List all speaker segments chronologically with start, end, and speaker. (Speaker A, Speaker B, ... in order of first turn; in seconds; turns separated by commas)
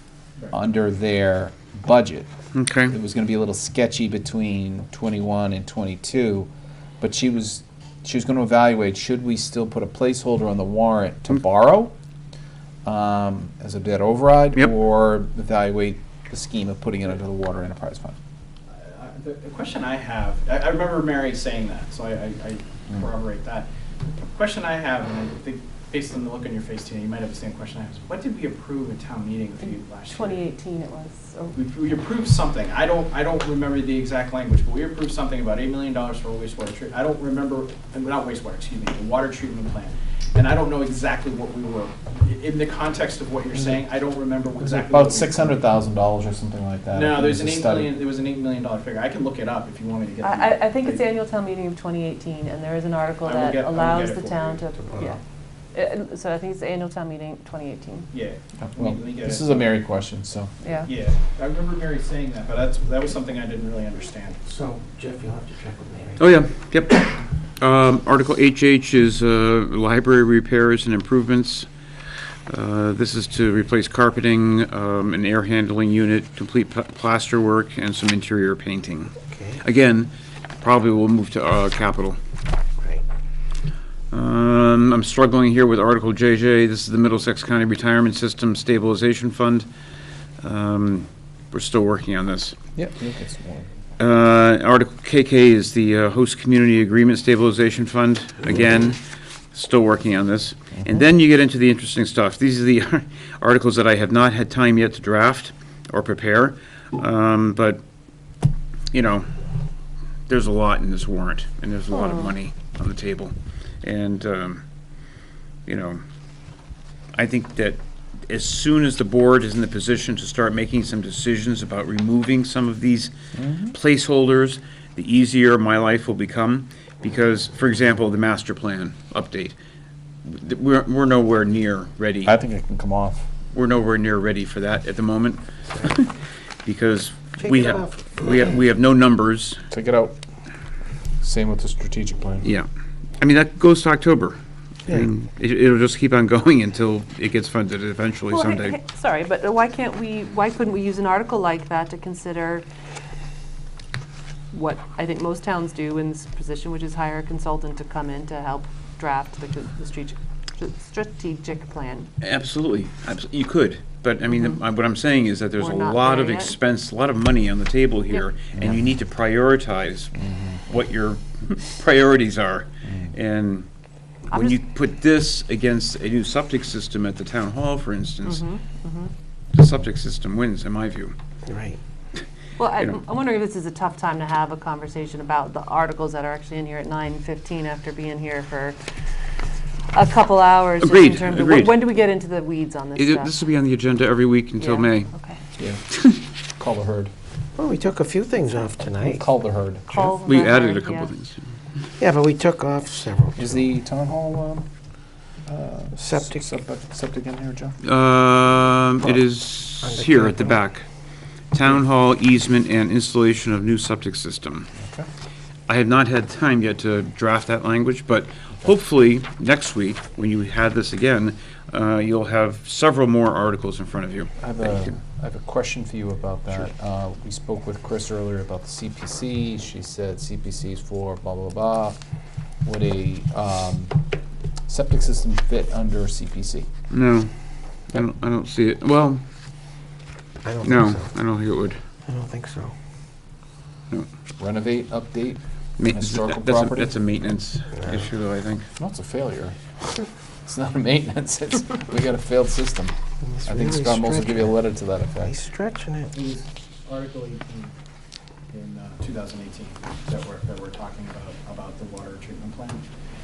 Speaker A: 0.5-2.3, Speaker B: 2.5-2.9, Speaker A: 2.9-6.5, Speaker A: 7.0-11.9, Speaker A: 12.8-18.1, Speaker C: 18.7-23.7, Speaker C: 24.3-30.5, Speaker D: 29.6-31.6, Speaker C: 31.5-45.6, Speaker A: 44.6-47.9, Speaker C: 46.9-51.0, Speaker D: 50.2-55.2, Speaker C: 53.2-55.1, Speaker D: 55.7-58.1, Speaker C: 58.1-59.7, Speaker A: 58.6-60.5, Speaker D: 60.6-60.9, Speaker C: 60.8-64.4, Speaker E: 64.4-66.4, Speaker B: 66.2-67.1, Speaker B: 67.6-71.7, Speaker B: 72.5-82.2, Speaker E: 79.3-79.6, Speaker B: 84.1-89.7, Speaker B: 90.4-92.6, Speaker A: 92.8-93.7, Speaker B: 94.0-99.0, Speaker B: 99.5-107.8, Speaker B: 108.9-109.3, Speaker B: 110.3-114.6, Speaker D: 111.9-112.3, Speaker B: 115.7-116.0, Speaker B: 117.1-123.1, Speaker A: 123.3-123.7, Speaker B: 123.7-129.5, Speaker B: 130.2-132.3, Speaker A: 132.2-133.2, Speaker B: 133.5-136.1, Speaker B: 136.6-139.6, Speaker E: 137.4-138.4, Speaker A: 139.7-140.1, Speaker A: 141.2-142.5, Speaker B: 142.4-142.7, Speaker B: 143.2-148.8, Speaker D: 148.3-152.7, Speaker D: 154.5-162.1, Speaker B: 162.2-170.1, Speaker D: 164.3-164.6, Speaker D: 165.6-166.6, Speaker A: 170.2-170.6, Speaker B: 170.7-173.7, Speaker A: 172.8-173.1, Speaker D: 174.3-174.6, Speaker B: 174.3-178.5, Speaker D: 178.2-179.1, Speaker B: 179.5-181.1, Speaker E: 181.4-181.8, Speaker D: 182.6-188.8, Speaker D: 189.9-193.4, Speaker B: 190.8-191.8, Speaker B: 192.9-195.1, Speaker D: 194.6-195.4, Speaker B: 195.9-196.2, Speaker A: 196.6-197.1, Speaker E: 197.6-199.3, Speaker A: 199.0-200.2, Speaker D: 199.9-201.1, Speaker B: 200.2-201.4, Speaker E: 202.0-203.6, Speaker A: 203.3-204.7, Speaker A: 205.4-207.8, Speaker E: 205.9-206.5, Speaker B: 207.8-210.8, Speaker E: 209.8-210.6, Speaker B: 211.5-214.7, Speaker A: 214.8-215.1, Speaker B: 215.7-225.0, Speaker A: 224.4-232.0, Speaker A: 232.6-233.9, Speaker A: 234.7-236.7, Speaker B: 236.9-237.3, Speaker B: 237.9-239.2, Speaker E: 240.4-241.1, Speaker B: 240.6-241.8, Speaker E: 242.1-242.7, Speaker A: 244.4-246.9, Speaker B: 245.8-248.7, Speaker A: 248.8-255.3, Speaker E: 253.2-254.6, Speaker E: 255.2-256.1, Speaker C: 256.1-257.7, Speaker C: 258.5-262.8